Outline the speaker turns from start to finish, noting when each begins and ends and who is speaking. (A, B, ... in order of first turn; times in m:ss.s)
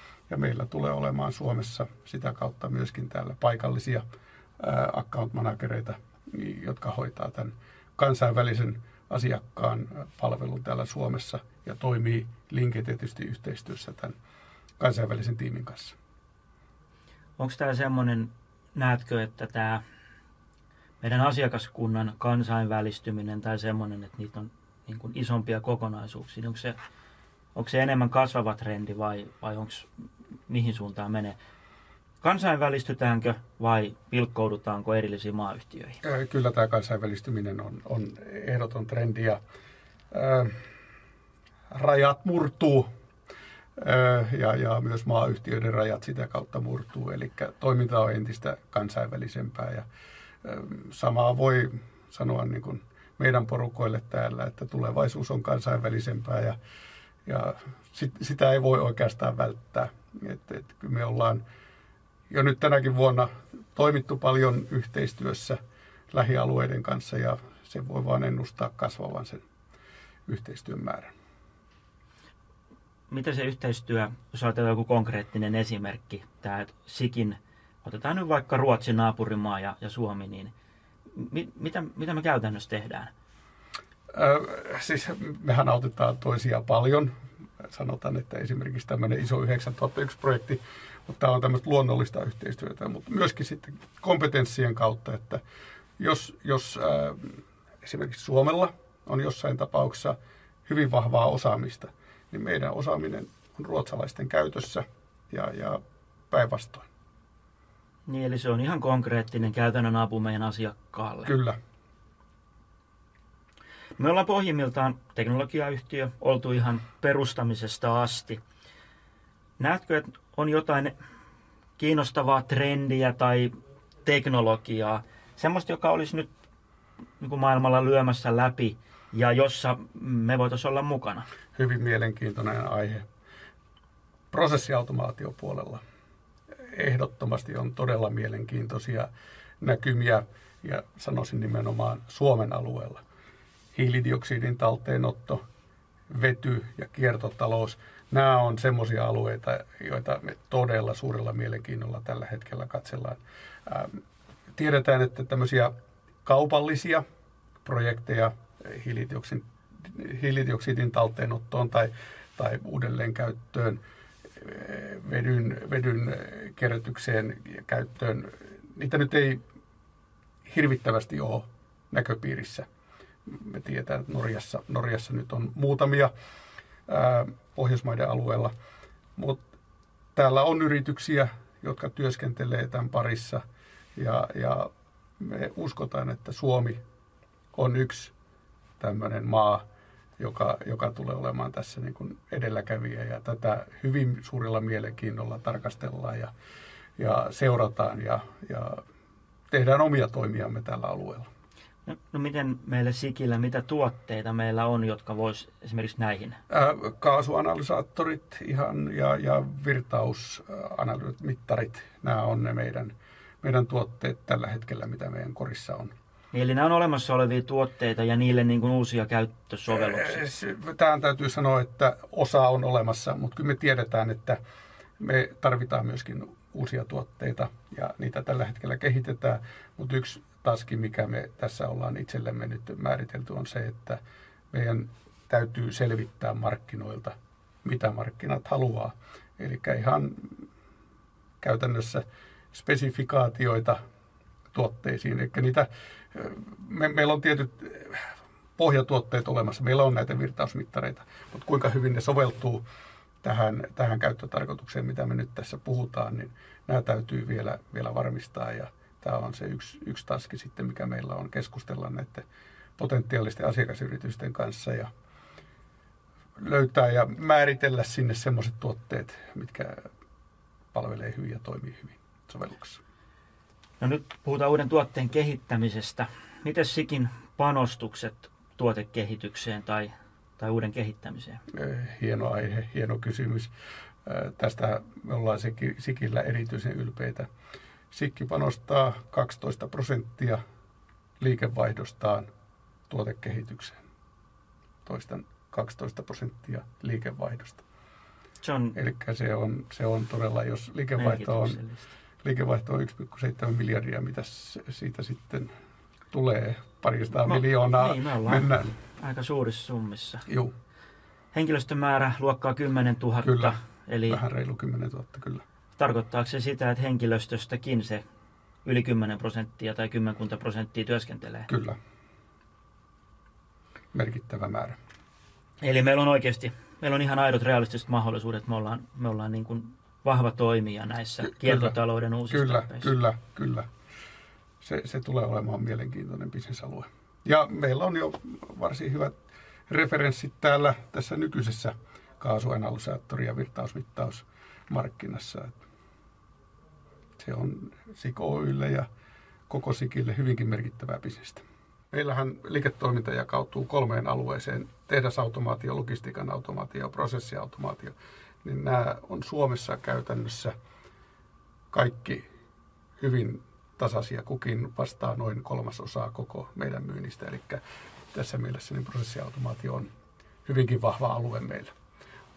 0:00.3-0:04.0 A
0:04.6-0:14.1 A
0:14.8-0:16.0 A
0:17.4-0:19.8 B
0:21.0-0:26.8 B
0:27.5-0:29.9 B
0:30.5-0:31.4 B
0:32.2-0:36.0 B
0:36.0-0:39.4 A
0:40.1-0:40.6 A
0:41.7-0:42.9 A
0:43.8-0:49.8 A
0:50.4-0:56.6 A
0:57.2-1:01.4 A
1:02.3-1:05.6 A
1:06.1-1:09.4 A
1:10.3-1:11.1 A
1:13.1-1:20.5 B
1:21.1-1:23.1 B
1:24.1-1:27.1 A
1:27.6-1:35.4 A
1:36.0-1:46.9 A
1:48.0-1:51.3 B
1:51.2-1:51.6 A
1:54.0-1:58.4 B
1:59.6-2:00.9 B
2:01.8-2:03.5 B
2:04.0-2:06.3 B
2:07.2-2:11.3 B
2:11.5-2:13.0 A
2:14.3-2:15.8 A
2:16.7-2:19.1 A
2:19.6-2:23.0 A
2:23.7-2:25.4 A
2:26.1-2:34.0 A
2:34.6-2:35.7 A
2:36.2-2:37.0 A
2:37.6-2:43.8 A
2:44.4-2:49.4 A
2:50.4-2:52.7 A
2:53.2-2:56.1 A
2:56.9-2:58.5 A
3:00.1-3:03.4 A
3:04.0-3:06.8 A
3:07.5-3:08.1 A
3:08.8-3:09.6 A
3:10.2-3:16.3 A
3:17.0-3:18.8 A
3:19.5-3:21.3 A
3:21.8-3:26.4 B
3:26.5-3:35.9 A
3:36.3-3:40.3 B
3:39.7-3:44.4 A
3:45.0-3:54.0 A
3:54.5-4:00.4 A
4:01.4-4:03.8 A
4:04.5-4:12.6 A
4:13.2-4:22.2 A
4:22.8-4:24.9 A
4:26.4-4:29.8 A
4:30.7-4:32.8 A
4:33.8-4:41.4 B
4:41.5-4:43.5 A
4:44.0-4:47.3 A
4:47.9-4:50.4 A
4:51.2-4:52.3 A
4:52.9-4:53.8 A
4:54.8-4:57.6 A
4:58.4-4:58.8 B
4:58.7-5:01.6 A
5:01.0-5:01.9 B
5:02.2-5:05.5 A
5:06.1-5:08.7 A
5:07.2-5:10.3 B
5:10.3-5:10.5 A
5:11.3-5:14.2 B
5:13.2-5:13.6 A
5:14.1-5:15.4 A
5:15.7-5:18.0 B
5:18.6-5:21.5 B
5:21.5-5:21.8 A
5:23.9-5:24.8 A
5:25.6-5:33.0 B
5:31.4-5:31.7 A
5:32.3-5:33.7 A
5:34.6-5:39.2 A
5:39.7-5:45.6 A
5:47.2-5:48.9 A
5:49.5-6:00.5 A
6:01.7-6:02.2 A
6:03.0-6:07.6 A
6:08.1-6:09.9 A
6:10.4-6:11.7 A